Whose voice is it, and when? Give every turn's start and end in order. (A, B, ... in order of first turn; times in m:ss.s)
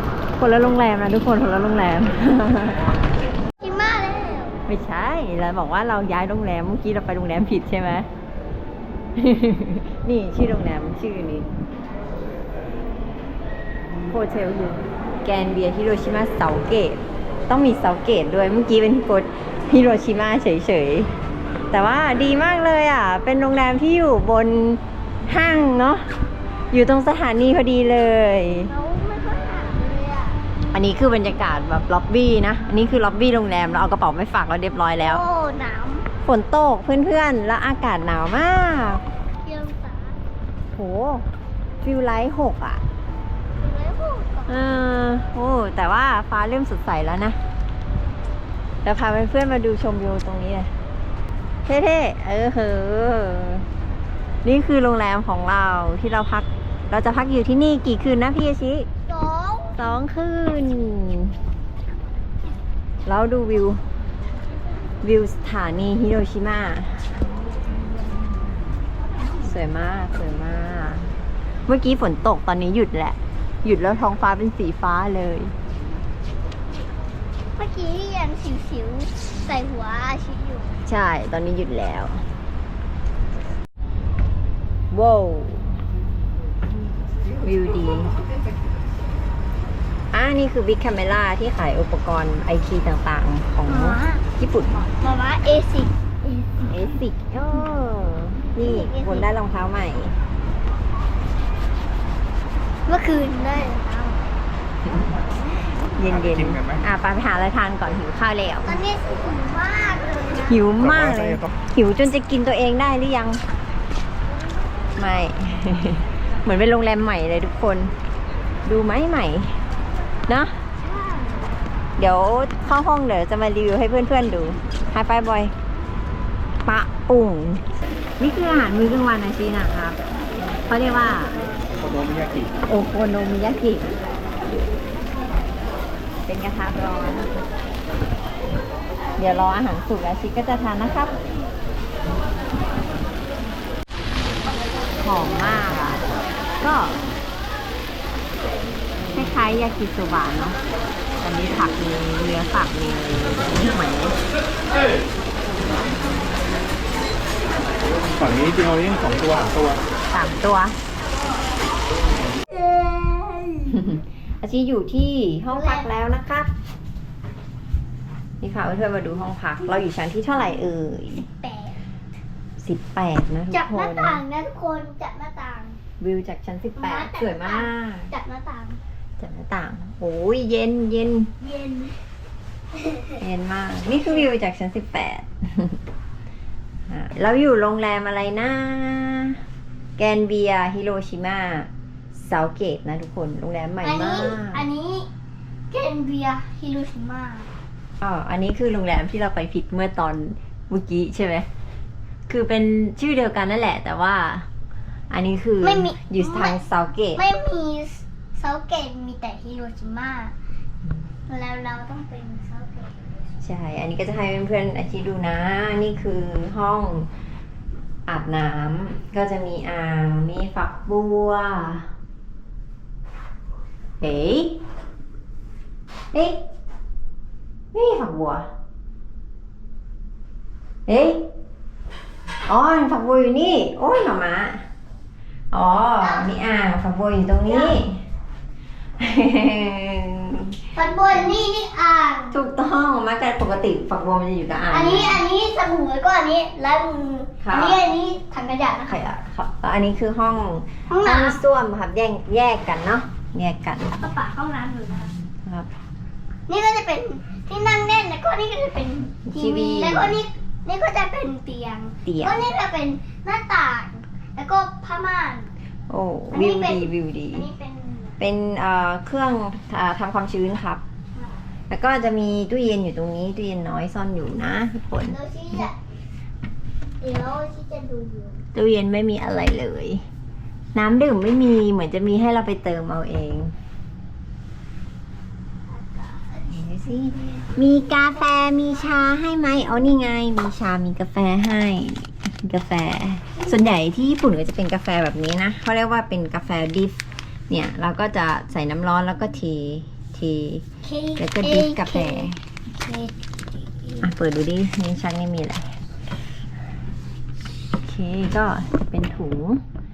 0:00.4-0:02.9 A
0:03.6-0:04.6 B
0:04.7-0:08.1 A
0:09.2-0:11.5 A
0:14.1-0:21.1 A
0:21.7-0:26.0 A
0:26.7-0:28.7 A
0:28.7-0:30.4 B
0:30.7-0:35.2 A
0:35.0-0:36.1 B
0:36.2-0:39.0 A
0:39.4-0:40.2 B
0:40.7-0:41.3 A
0:41.8-0:42.8 A
0:43.6-0:44.5 B
0:44.5-0:47.4 A
0:48.8-0:50.7 A
0:51.6-0:53.7 A
0:54.4-0:58.9 A
0:59.1-0:59.8 B
0:59.8-1:01.4 A
1:03.0-1:03.8 A
1:05.0-1:07.1 A
1:09.4-1:11.1 A
1:11.6-1:15.5 A
1:17.6-1:20.8 B
1:20.8-1:22.2 A
1:24.9-1:25.8 A
1:27.3-1:28.1 A
1:30.1-1:34.8 A
1:33.7-1:34.2 B
1:35.0-1:36.6 B
1:36.7-1:40.2 A
1:38.6-1:39.2 B
1:42.8-1:44.4 B
1:44.8-1:45.1 A
1:45.8-1:48.8 A
1:48.6-1:50.6 B
1:50.5-1:53.4 A
1:55.0-1:57.9 A
1:58.6-1:59.6 A
2:00.3-2:00.6 A
2:00.8-2:01.5 B
2:02.0-2:05.5 A
2:06.6-2:07.6 A
2:08.2-2:11.4 A
2:11.8-2:12.5 C
2:12.6-2:13.9 A
2:16.2-2:17.3 A
2:19.2-2:21.1 A
2:25.0-2:26.0 A
2:26.6-2:27.0 A
2:29.1-2:30.6 A
2:31.2-2:34.2 A
2:38.2-2:39.8 C
2:40.1-2:40.8 A
2:42.5-2:43.7 B
2:43.7-2:46.5 A
2:45.5-2:45.8 B
2:48.4-2:51.3 A
2:51.3-2:51.8 B
2:52.6-2:54.2 A
2:53.5-2:55.8 B
2:56.0-2:58.1 A
2:56.8-2:58.8 B
2:59.2-3:01.3 A
3:01.4-3:02.0 B
3:02.8-3:03.2 B
3:03.2-3:05.8 A
3:06.9-3:09.4 A
3:10.0-3:14.6 A
3:13.8-3:15.1 B
3:15.7-3:17.5 B
3:18.0-3:21.5 A
3:22.3-3:24.5 A
3:25.1-3:27.2 A
3:25.6-3:26.6 B
3:27.2-3:30.3 B
3:31.3-3:33.1 B
3:33.4-3:37.1 A
3:38.1-3:41.9 A
3:44.0-3:44.6 A
3:46.1-3:46.4 A
3:47.7-3:48.5 A
3:50.9-3:51.2 A
3:52.5-3:54.6 A
3:55.5-3:58.0 A
3:57.5-3:57.8 B
3:59.0-4:00.6 A
4:00.7-4:02.3 B
4:02.3-4:05.2 A
4:04.7-4:09.0 B
4:07.4-4:07.8 A
4:08.9-4:13.9 A
4:10.9-4:11.4 B
4:13.9-4:15.1 B
4:15.2-4:15.7 A
4:16.5-4:25.5 B
4:19.2-4:20.2 A
4:22.0-4:22.5 A
4:25.9-4:27.5 A
4:26.3-4:28.2 B
4:28.2-4:30.8 A
4:31.7-4:35.6 A
4:35.0-4:35.8 B
4:37.0-4:38.4 B
4:38.5-4:40.0 A
4:40.7-4:43.5 A
4:45.8-4:46.4 B
4:46.5-4:56.9 A
4:47.2-4:47.5 B
4:57.5-5:00.6 A
5:00.8-5:03.1 B
5:01.2-5:02.4 A
5:04.0-5:05.7 A
5:07.8-5:09.6 A